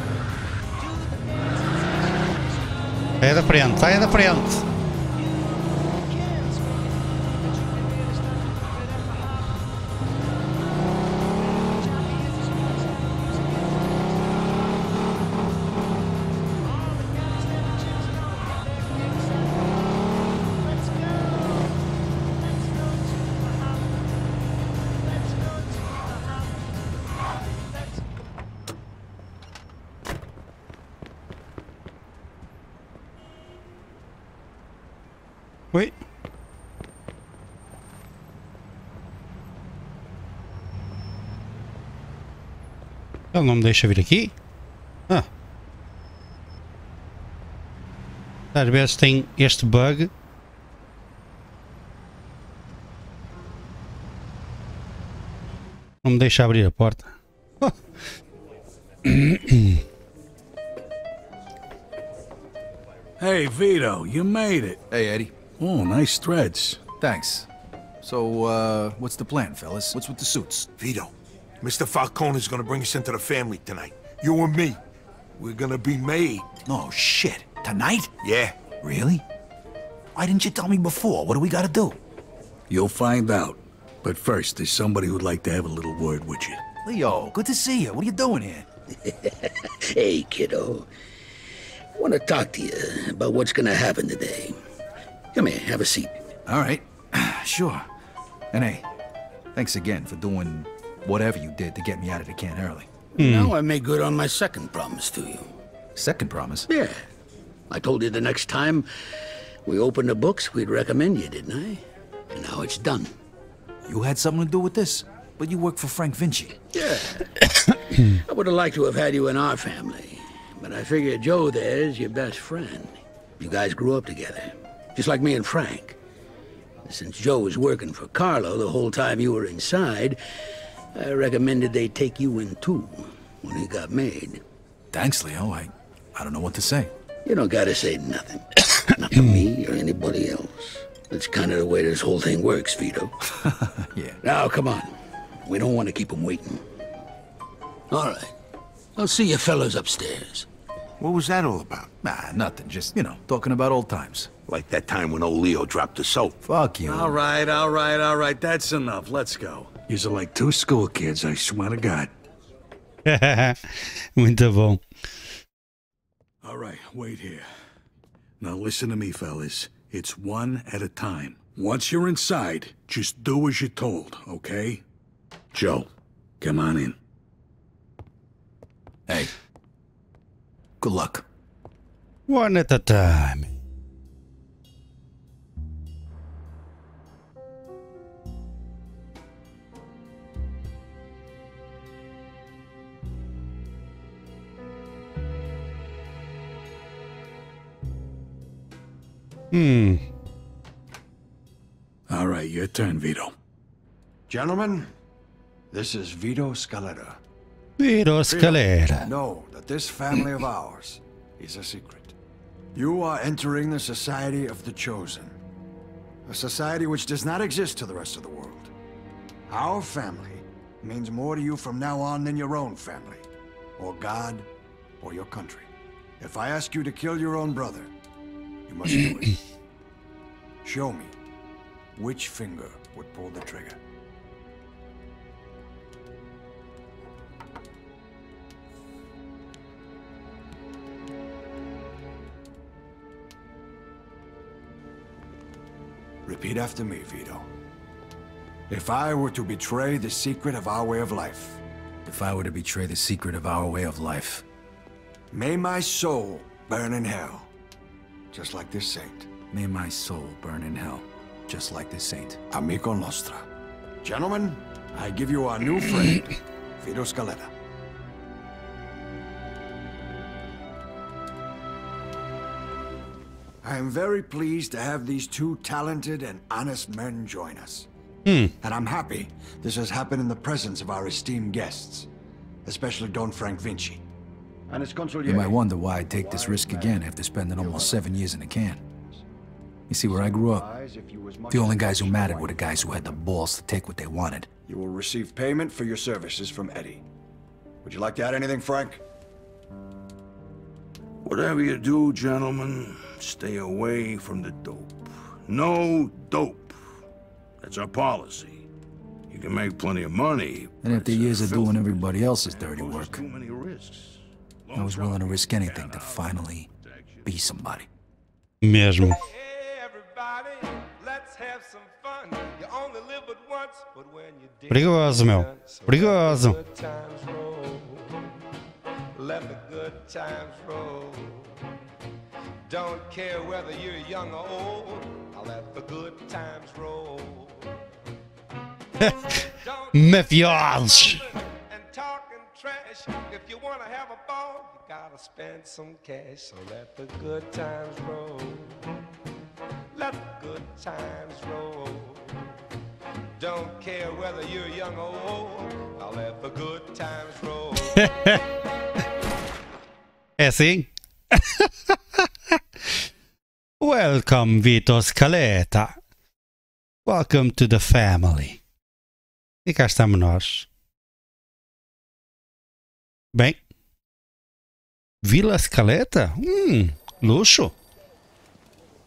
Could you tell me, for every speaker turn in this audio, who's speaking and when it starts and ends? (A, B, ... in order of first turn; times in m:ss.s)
0:03.2-0:04.6 A
0:43.3-0:44.3 A
0:48.5-0:50.1 A
0:56.0-0:57.7 A
0:59.1-0:59.8 A
1:03.2-1:04.8 B
1:04.9-1:05.4 C
1:05.5-1:06.9 B
1:07.0-1:07.5 C
1:08.0-1:10.7 C
1:10.8-1:14.8 D
1:15.4-1:16.5 D
1:16.6-1:18.1 C
1:18.2-1:18.6 D
1:18.8-1:19.2 C
1:20.1-1:22.0 C
1:22.7-1:26.6 B
1:26.8-1:28.7 C
1:29.0-1:30.9 E
1:32.0-1:34.6 E
1:35.3-1:36.2 E
1:36.4-1:37.9 C
1:38.5-1:38.8 C
1:39.5-1:42.9 C
1:43.2-1:45.5 E
1:43.2-1:43.5 A
1:46.0-1:46.7 C
1:46.7-1:47.0 E
1:47.7-1:48.9 E
1:49.6-1:53.1 E
1:53.8-1:56.6 C
1:56.7-1:57.2 E
1:58.1-2:06.0 E
2:06.8-2:10.2 E
2:10.9-2:14.4 E
2:14.9-2:16.9 C
2:17.2-2:23.1 E
2:23.4-2:24.2 C
2:24.2-2:24.9 E
2:25.4-2:26.6 E
2:27.9-2:28.3 E
2:29.0-2:30.5 E
2:31.0-2:31.9 D
2:32.0-2:34.3 C
2:34.5-2:36.4 D
2:36.4-2:37.2 C
2:36.8-2:42.1 B
2:43.0-2:44.8 A
2:46.4-2:47.5 B
2:48.4-2:54.8 B
2:55.5-2:55.9 B
2:56.4-2:57.0 B
3:00.8-3:01.2 C
3:02.3-3:03.5 A
3:19.5-3:20.0 A
3:22.1-3:23.3 B
3:24.3-3:24.9 F
3:25.7-3:27.2 F
3:27.8-3:29.0 A
3:28.3-3:32.1 F
3:32.7-3:35.4 F
3:36.3-3:38.7 F
3:39.5-3:44.5 F
3:45.0-3:47.9 F
3:48.7-3:49.4 F
3:50.6-3:51.2 F
3:52.0-3:53.8 F
4:06.2-4:07.5 F
4:08.7-4:11.6 F
4:12.0-4:14.4 C
4:15.3-4:17.5 F
4:18.3-4:19.3 F
4:19.5-4:22.4 C
4:22.5-4:23.5 F
4:24.0-4:27.5 F
4:33.6-4:37.9 F
4:38.2-4:38.5 A
4:38.6-4:42.1 F
4:42.6-4:44.0 F
4:44.7-4:48.1 F
4:45.2-4:48.8 C
4:49.9-4:50.7 C
4:50.0-4:52.9 F
4:51.5-4:54.5 C
4:54.7-4:57.0 F
4:57.8-4:59.0 F
5:01.2-5:06.8 G
5:07.6-5:08.6 G
5:09.3-5:17.3 G
5:10.8-5:13.3 C
5:14.7-5:16.7 C
5:17.2-5:17.9 C
5:18.6-5:19.2 A
5:19.0-5:28.2 H
5:24.7-5:26.6 A
5:29.1-5:31.6 H
5:32.7-5:37.7 H
5:39.0-5:48.7 H
5:39.9-5:41.2 A
5:49.9-5:52.3 H
5:53.4-5:58.0 H
5:58.0-5:58.4 A
6:00.4-6:01.9 A
6:03.8-6:06.0 A
6:07.0-6:08.6 A
6:09.6-6:10.7 A
6:13.3-6:13.6 A
6:15.2-6:17.7 A